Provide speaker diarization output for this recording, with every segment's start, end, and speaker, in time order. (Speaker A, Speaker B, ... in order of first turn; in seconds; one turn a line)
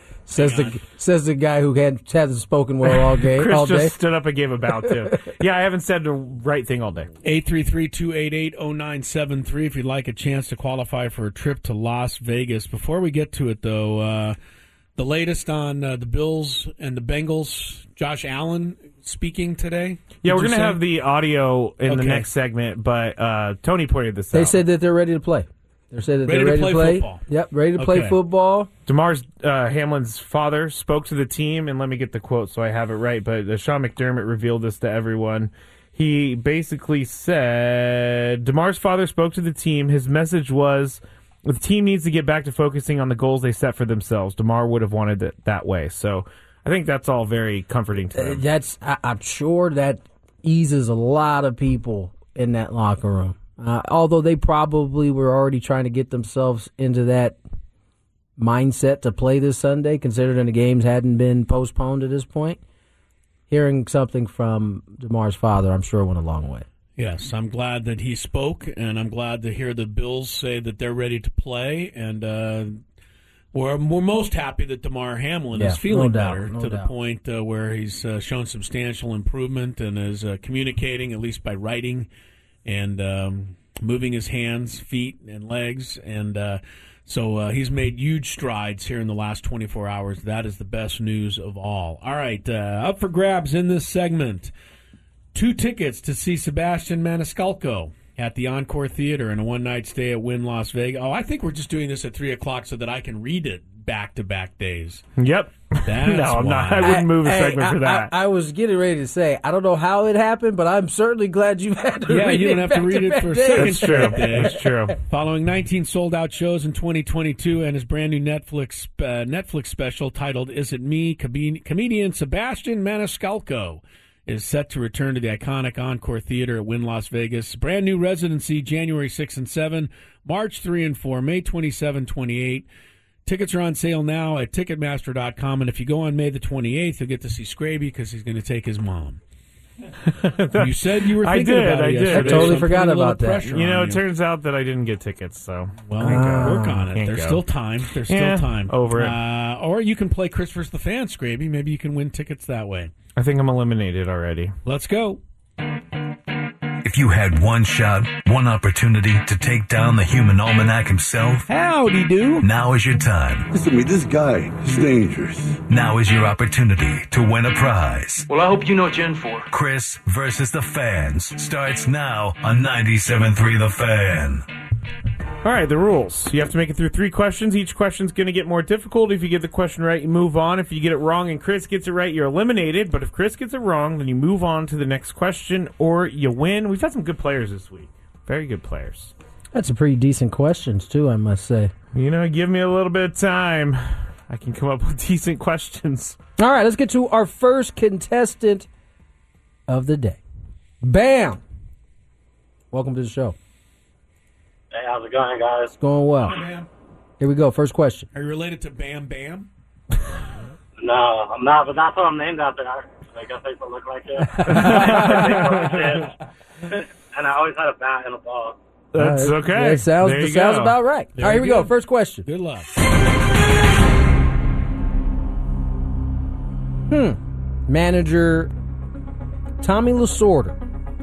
Speaker A: 0.3-4.0
Speaker B: 0.3-0.8
Speaker C: 3.0-7.1
Speaker B: 7.2-14.4
Speaker B: 15.0-20.8
Speaker C: 20.2-24.6
Speaker B: 21.9-22.3
Speaker A: 24.3-28.7
Speaker B: 26.3-28.2
Speaker C: 28.9-48.4
Speaker A: 48.1-57.4
Speaker A: 58.4-62.6
Speaker A: 63.5-66.7
Speaker B: 67.0-72.8
Speaker B: 73.5-82.1
Speaker A: 75.5-76.9
Speaker B: 82.7-94.5
Speaker B: 95.3-105.0
Speaker C: 105.2-108.1
Speaker B: 105.8-107.0
Speaker A: 106.8-115.0
Speaker B: 112.1-132.7
Speaker C: 113.5-115.0
Speaker B: 133.3-139.2
Speaker C: 140.1-142.8
Speaker B: 140.6-144.1
Speaker A: 142.1-143.6
Speaker C: 143.5-147.4
Speaker B: 145.8-152.9
Speaker A: 146.0-146.9
Speaker C: 147.9-149.2
Speaker C: 153.2-154.5
Speaker B: 154.7-155.2
Speaker D: 156.8-161.5
Speaker B: 161.5-162.5
Speaker D: 162.4-163.5
Speaker E: 163.5-165.5
Speaker D: 165.7-168.3
Speaker D: 169.4-174.4
Speaker C: 175.4-189.1
Speaker A: 189.5-191.7
Speaker C: 191.9-196.2
Speaker A: 196.4-198.7
Speaker A: 199.7-200.2
Speaker A: 200.8-201.4
Speaker A: 202.7-203.4
Speaker F: 204.7-205.7
Speaker A: 205.7-206.4
Speaker B: 206.2-206.7
Speaker A: 207.2-208.1
Speaker B: 208.1-209.5
Speaker F: 210.8-218.6
Speaker A: 214.3-215.4
Speaker C: 214.5-215.4
Speaker C: 218.9-220.8
Speaker A: 219.0-222.2
Speaker B: 221.2-222.7
Speaker A: 226.9-228.5
Speaker A: 229.6-230.6